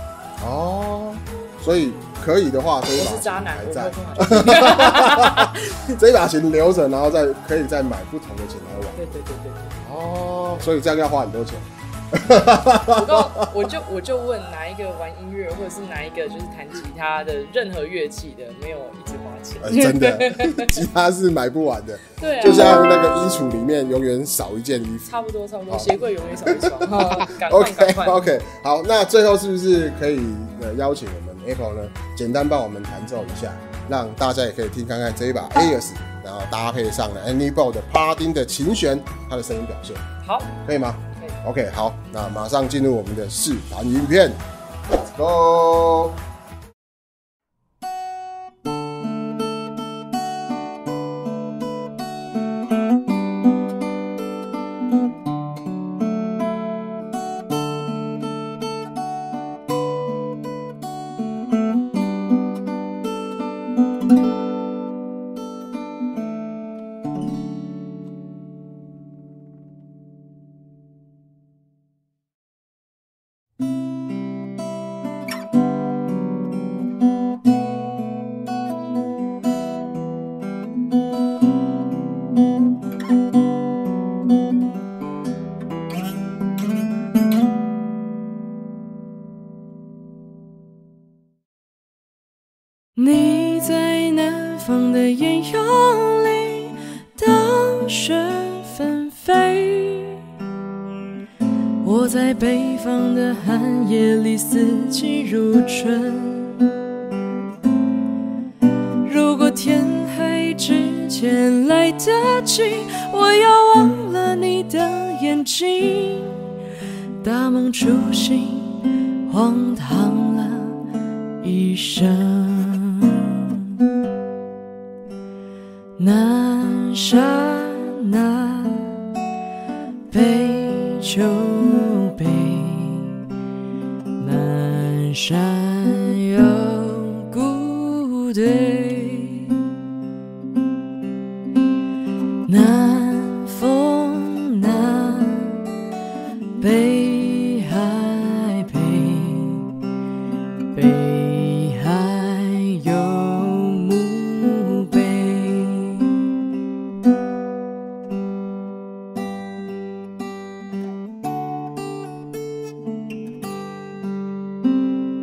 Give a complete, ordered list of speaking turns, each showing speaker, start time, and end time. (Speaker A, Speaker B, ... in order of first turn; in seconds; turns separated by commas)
Speaker A: 0.4-9.0, Speaker B: 2.9-5.8, Speaker B: 9.0-10.6, Speaker A: 9.8-13.5, Speaker B: 12.9-20.8, Speaker A: 19.6-25.1, Speaker B: 22.2-22.9, Speaker B: 25.1-28.3, Speaker A: 25.7-40.0, Speaker B: 40.2-40.5, Speaker A: 40.6-46.2, Speaker C: 93.0-100.2, Speaker C: 101.8-106.6, Speaker C: 109.0-116.4, Speaker C: 117.2-120.8, Speaker C: 121.4-123.4, Speaker C: 126.0-129.0, Speaker C: 130.1-133.2, Speaker C: 134.2-139.6, Speaker C: 142.5-145.6, Speaker C: 146.6-149.7, Speaker C: 150.7-156.2